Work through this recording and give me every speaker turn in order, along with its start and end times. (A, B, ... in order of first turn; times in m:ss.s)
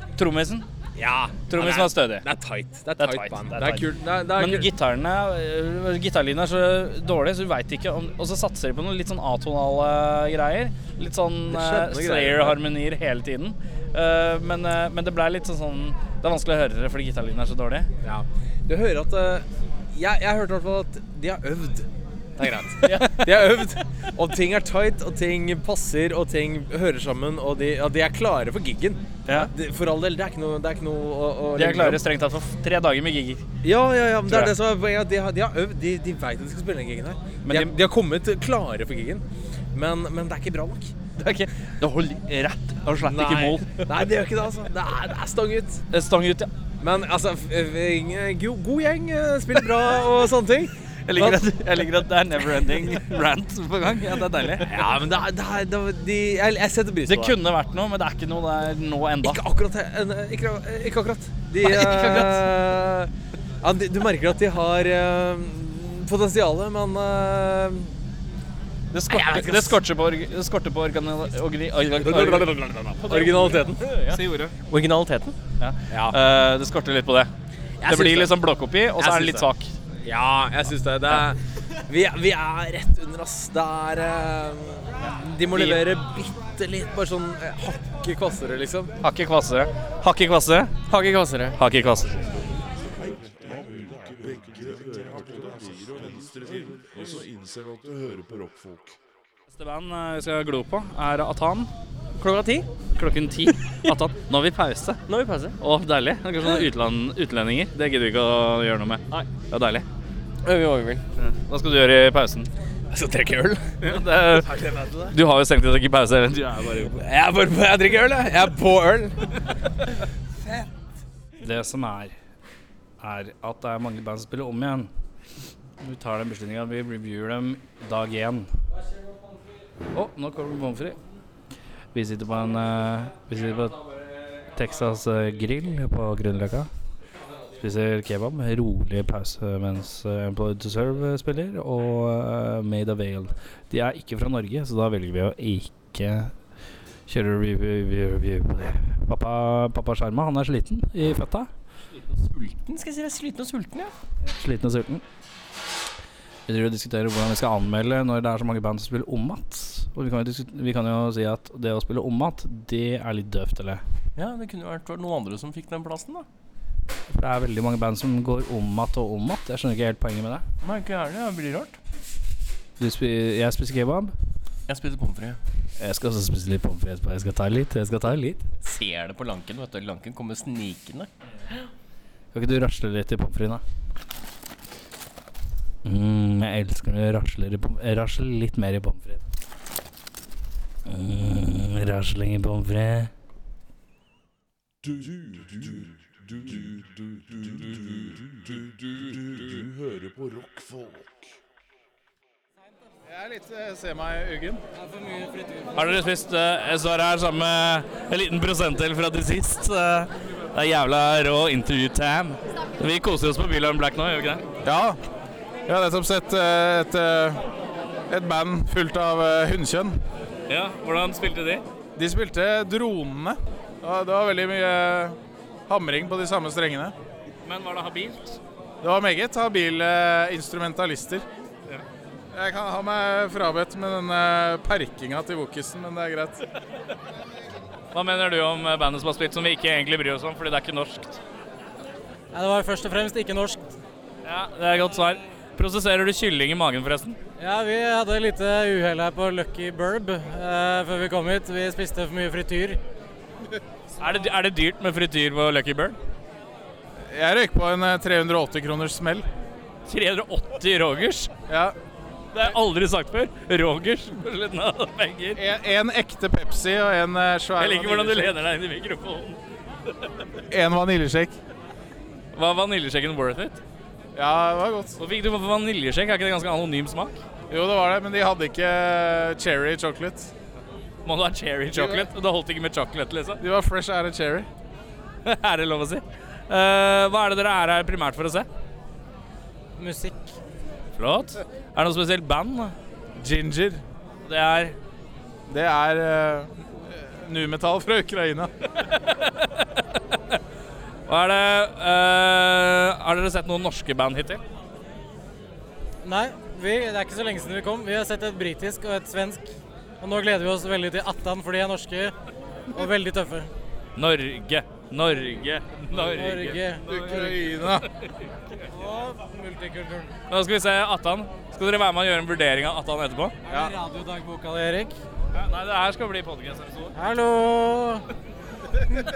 0:00.2-0:00.7 A
0:01.0-0:04.7 B
0:01.5-0:02.2 A
0:03.0-0:17.9 A
0:11.5-0:12.6 B
0:18.0-0:32.0 B
0:22.8-0:23.3 A
0:29.2-0:29.5 A
0:31.6-0:33.4 A
0:33.6-0:41.4 B
0:34.3-0:34.5 A
0:37.4-0:37.7 A
0:41.2-0:43.8 A
0:43.0-0:45.8 B
0:45.9-0:46.5 A
0:46.8-0:51.8 B
0:51.1-0:54.8 A
0:54.6-0:57.4 B
0:57.1-0:59.4 A
0:59.2-1:08.0 B
1:01.6-1:02.5 A
1:08.9-1:12.6 A
1:09.1-1:09.8 B
1:11.9-1:14.2 B
1:13.0-1:15.4 C
1:14.1-1:14.6 A
1:15.6-1:17.3 A
1:15.9-1:16.2 B
1:17.8-1:18.4 B
1:17.9-1:19.7 A
1:19.0-1:19.5 B
1:20.0-1:28.9 B
1:25.5-1:25.8 A
1:29.0-1:30.8 A
1:30.9-1:31.6 C
1:31.6-1:32.2 A
1:32.9-1:39.0 D
1:39.5-1:41.7 A
1:42.2-1:42.7 C
1:43.0-1:45.0 A
1:45.1-1:45.6 C
1:45.6-1:49.9 A
1:50.4-1:51.0 C
1:51.2-1:52.5 A
1:52.9-1:54.0 B
1:53.8-1:57.0 A
1:54.5-1:55.1 B
1:57.0-1:59.4 B
2:01.4-2:02.1 A
2:03.0-2:04.9 A
2:05.8-2:08.5 A
2:09.9-2:11.0 A
2:11.9-2:13.8 A
2:14.5-2:16.7 A
2:17.6-2:26.4 A
2:27.1-2:31.5 A
2:31.9-2:33.9 C
2:34.3-2:35.0 A
2:36.5-2:43.8 A
2:44.2-2:46.2 C
2:47.1-2:50.5 A
2:50.6-2:51.8 C
2:52.8-2:54.1 A
2:54.7-2:55.4 C
2:55.8-2:58.5 A
2:58.6-3:01.1 C
3:02.3-3:03.6 A
3:05.8-3:09.2 A
3:10.9-3:13.1 A
3:14.8-3:21.3 D
3:23.1-3:24.6 E
3:24.8-3:25.7 F
3:25.8-3:34.4 A
3:34.6-3:35.0 E
3:35.7-3:37.4 E
3:38.1-3:40.0 E
3:40.5-3:41.6 A
3:42.0-3:46.9 E
3:47.4-3:48.4 A
3:48.8-3:51.2 E
3:52.3-3:56.4 E
3:57.9-4:01.2 A
4:02.3-4:03.7 F
4:04.2-4:07.2 A
4:07.4-4:12.8 F
4:14.0-4:16.0 A
4:17.0-4:19.3 E
4:19.9-4:21.3 A
4:21.5-4:21.8 E
4:22.3-4:25.4 A
4:25.4-4:28.4 E
4:27.6-4:29.4 A
4:30.5-4:31.4 E
4:32.3-4:33.6 A
4:34.1-4:35.0 E
4:35.0-4:37.2 A
4:37.5-4:40.3 E
4:41.0-4:43.4 A
4:41.7-4:42.1 E
4:43.4-4:44.5 E
4:45.2-4:48.5 A
4:49.8-4:50.4 F
4:51.0-4:52.8 A
4:53.2-4:53.8 E
4:54.2-4:54.8 A
4:55.5-4:58.5 E
4:58.8-5:00.4 A
5:01.1-5:04.4 A
5:06.0-5:12.1 F
5:12.7-5:13.5 F
5:14.0-5:18.2 A
5:15.9-5:17.3 F
5:16.9-5:17.9 E
5:18.7-5:20.1 F
5:20.3-5:23.4 A
5:23.5-5:25.0 F
5:23.5-5:23.7 E
5:25.3-5:27.0 A
5:27.0-5:28.1 F